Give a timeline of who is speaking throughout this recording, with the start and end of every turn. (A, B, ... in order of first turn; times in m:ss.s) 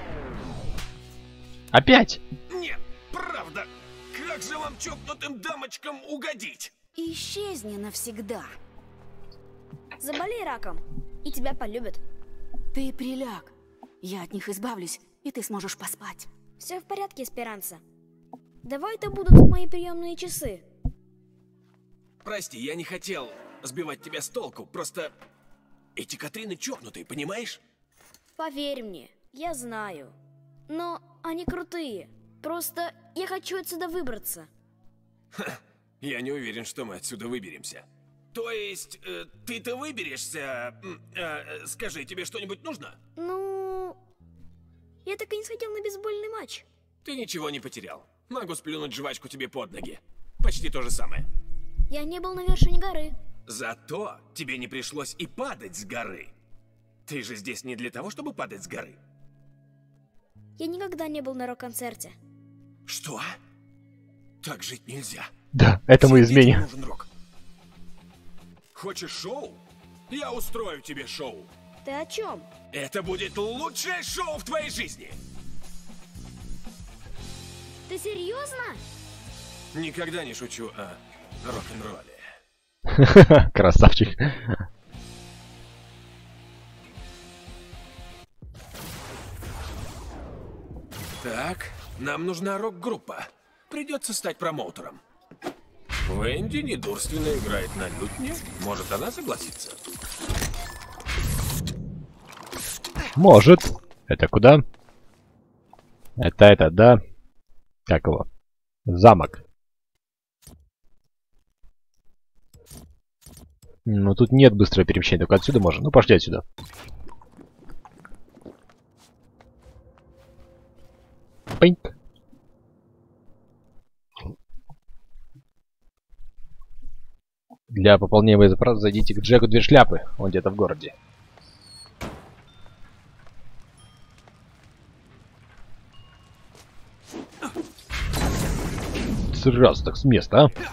0:01.7-0:02.2 A
0:02.5-0:06.7 B
0:07.0-0:08.6 C
0:10.0-0:12.0 D
0:12.7-0:16.3 C
0:16.6-0:17.8 D
0:18.6-0:20.6 D
0:22.2-0:25.1 B
0:26.0-0:27.6 B
0:28.4-0:30.2 D
0:30.7-0:34.5 D
0:35.3-0:43.0 B
0:43.2-0:44.0 D
0:45.0-0:46.6 D
0:47.0-0:51.2 B
0:51.9-0:53.2 D
0:53.5-0:56.3 B
0:57.0-0:59.0 B
1:00.6-1:02.2 D
1:02.9-1:03.4 B
1:04.4-1:05.3 B
1:05.5-1:06.6 A
1:05.9-1:07.1 B
1:08.7-1:11.5 B
1:11.8-1:12.5 D
1:12.7-1:15.2 B
1:17.9-1:18.8 D
1:19.7-1:22.3 B
1:22.9-1:24.6 A
1:31.2-1:35.0 B
1:36.0-1:39.8 B
1:43.2-1:44.6 A
1:46.2-1:47.0 A
1:47.9-1:48.3 A
1:48.9-1:49.4 A
1:53.9-1:56.4 A
2:01.6-2:01.9 A
2:07.7-2:10.9 A
2:19.3-2:20.5 A